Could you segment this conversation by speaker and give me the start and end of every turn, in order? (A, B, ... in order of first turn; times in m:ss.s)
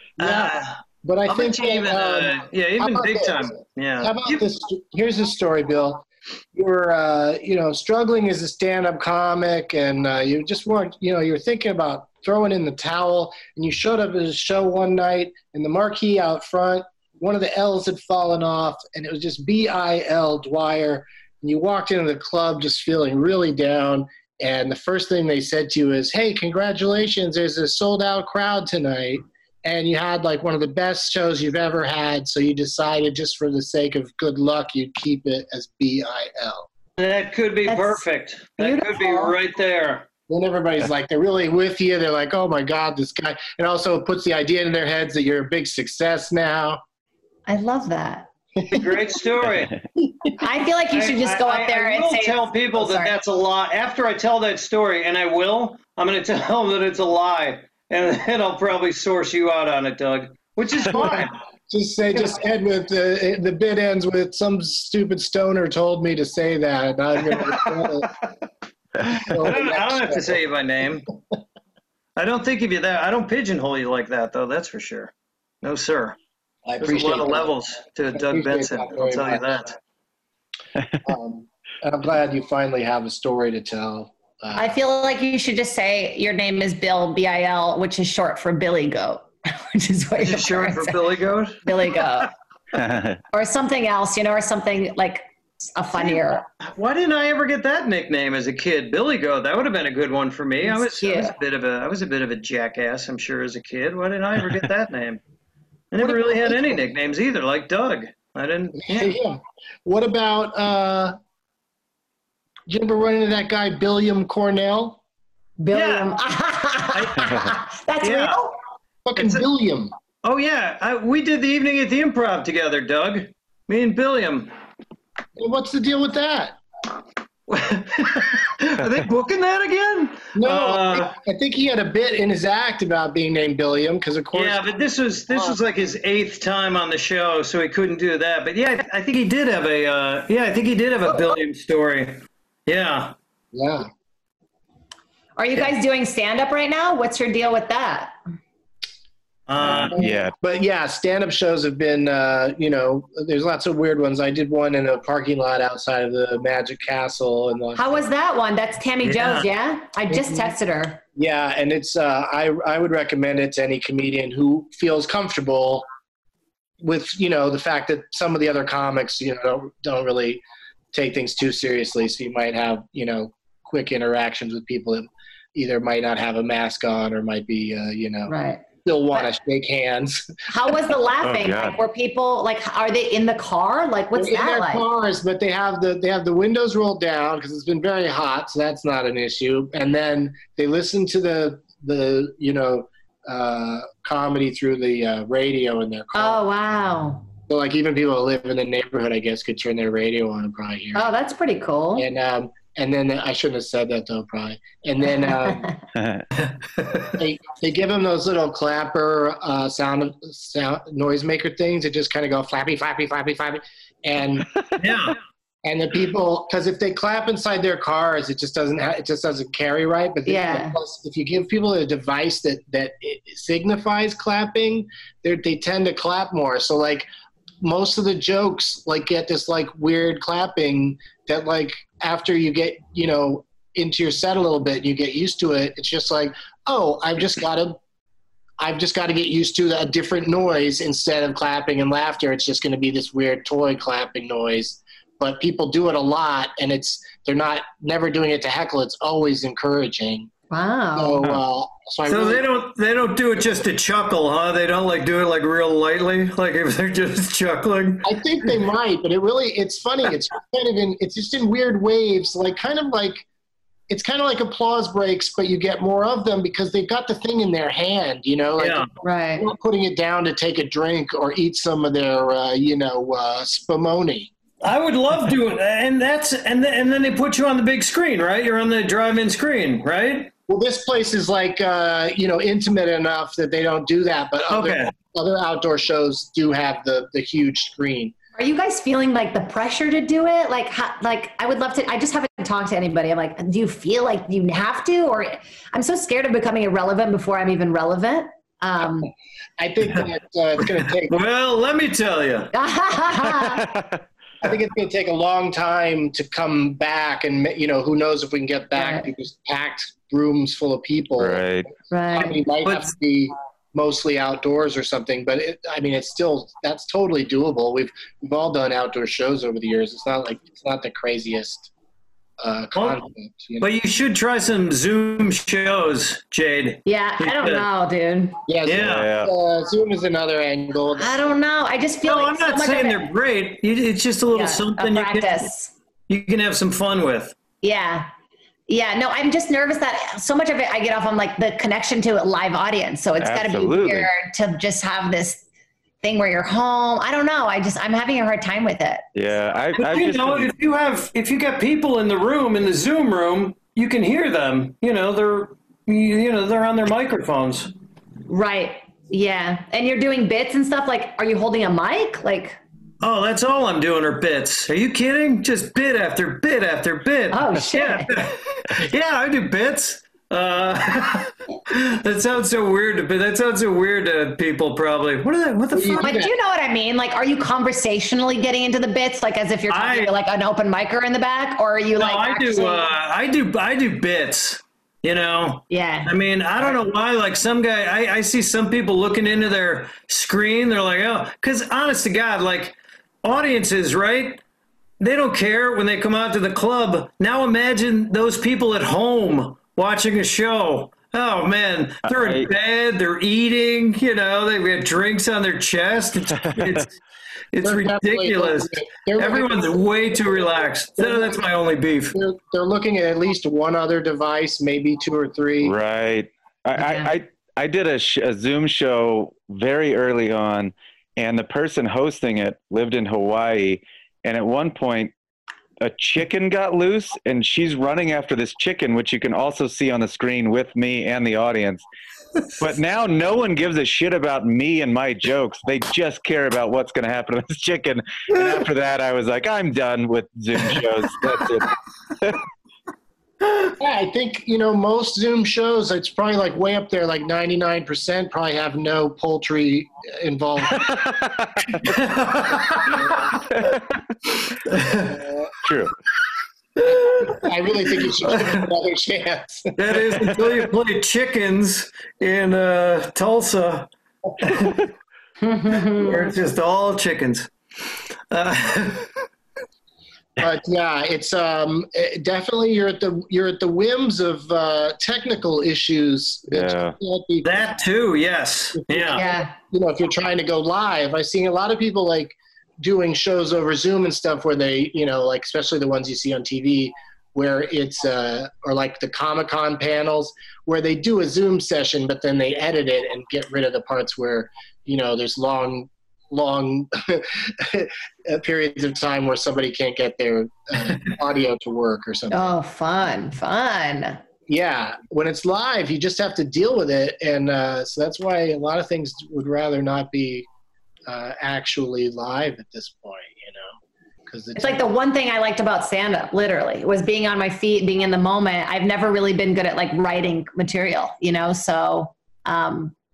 0:00.2-0:36.7 A
0:00.2-0:04.4 B
0:37.0-0:40.1 B
0:37.7-0:38.0 C
0:38.6-0:39.4 C
0:40.3-0:46.8 A
0:47.5-0:48.3 C
0:48.7-0:49.7 B
0:50.4-0:53.1 C
0:50.9-1:01.4 B
1:01.7-1:08.1 A
1:07.3-1:07.9 B
1:09.1-1:10.4 A
1:09.4-1:11.1 B
1:12.2-1:16.2 B
1:16.6-1:17.5 A
1:16.8-1:19.8 B
1:18.1-1:19.7 A
1:21.0-1:24.8 A
1:24.6-1:31.0 C
1:30.2-1:32.0 B
1:31.6-1:32.3 C
1:32.7-1:33.2 D
1:33.3-1:36.4 C
1:36.0-1:45.2 B
1:40.6-1:41.4 C
1:45.9-1:49.2 B
1:46.0-1:46.7 A
1:48.9-1:51.2 A
1:52.7-1:55.0 A
1:55.6-1:58.6 C
1:55.7-1:56.1 B
1:56.9-1:57.4 B
1:58.0-1:58.4 B
1:59.1-1:59.9 A
1:59.2-1:59.4 B
2:00.2-2:04.5 B
2:05.4-2:06.6 A
2:07.5-2:11.1 B
2:10.4-2:14.6 A
2:14.3-2:23.1 B
2:15.3-2:15.6 A
2:23.5-2:23.9 A
2:25.4-2:28.2 C
2:29.5-2:30.0 B
2:29.8-2:30.3 D
2:29.9-2:38.0 A
2:37.8-2:41.0 C
2:39.0-2:39.5 B
2:40.1-2:40.5 A
2:41.2-2:45.9 A
2:46.8-2:58.3 A
2:58.3-2:59.3 C
2:58.8-3:00.3 A
3:00.5-3:04.9 C
3:01.2-3:01.8 D
3:04.1-3:16.4 A
3:16.2-3:17.3 C
3:17.5-3:21.1 A
3:21.0-3:22.1 C
3:22.0-3:25.7 A
3:25.2-3:25.7 C
3:26.0-3:26.2 D
3:26.4-3:27.1 B
3:27.2-3:34.5 A
3:34.8-3:35.2 B
3:35.6-3:47.1 A
3:40.3-3:40.8 C
3:47.6-3:57.8 A
3:58.6-4:10.3 A
4:10.5-4:11.2 C
4:11.0-4:12.5 A
4:12.1-4:18.1 B
4:18.0-4:23.2 A
4:23.9-4:34.3 A
4:28.6-4:28.9 B
4:29.0-4:29.5 C
4:34.6-4:40.3 B
4:40.5-4:48.1 A
4:44.5-4:44.9 B
4:48.4-4:59.1 C
4:59.6-5:01.2 A
5:01.1-5:02.5 B
5:02.5-5:03.7 C
5:03.5-5:03.9 D
5:04.4-5:11.5 A
5:08.8-5:09.1 C
5:11.2-5:11.7 D
5:11.9-5:12.4 C
5:12.1-5:21.7 A
5:12.6-5:12.9 B
5:22.4-5:23.7 A
5:22.8-5:23.0 B
5:23.6-5:27.7 B
5:26.9-5:28.4 C
5:28.5-5:31.2 A
5:28.7-5:29.1 B
5:28.8-5:29.3 D
5:31.0-5:33.1 C
5:32.0-5:35.5 B
5:34.3-5:35.7 C
5:36.1-5:37.4 B
5:37.6-5:38.1 C
5:38.7-5:45.4 C
5:43.2-5:44.1 D
5:46.0-5:49.1 C
5:49.2-5:50.5 D
5:49.8-5:57.7 B
5:58.3-6:02.6 C
6:03.0-6:16.2 B
6:07.3-6:08.1 C
6:15.7-6:16.3 A
6:16.0-6:22.9 C
6:19.7-6:20.1 B
6:22.0-6:34.4 B
6:25.7-6:26.1 C
6:35.0-6:47.0 B
6:42.1-6:42.5 D
6:46.4-6:46.8 D
6:47.5-6:52.2 B
6:47.6-6:51.5 A
6:52.1-6:55.8 A
6:55.6-7:05.1 D
6:56.8-6:57.1 C
7:05.8-7:11.8 D
7:12.6-7:22.4 D
7:23.8-7:30.9 A
7:31.8-7:33.2 B
7:34.7-7:35.2 B
7:35.1-7:35.5 A
7:35.6-7:35.9 D
7:36.8-7:37.4 B
7:36.9-7:39.7 A
7:38.0-7:38.7 B
7:39.8-7:44.8 B
7:45.4-7:46.3 C
7:45.9-7:47.5 B
7:48.3-7:49.1 B
7:50.4-7:57.8 A
7:56.5-7:57.0 D
7:57.4-7:59.2 B
7:58.8-8:22.5 A
7:59.2-7:59.5 C
8:22.3-8:24.2 C
8:24.5-8:30.5 A
8:31.1-8:33.7 A
8:34.3-8:34.9 A
8:34.6-8:42.9 C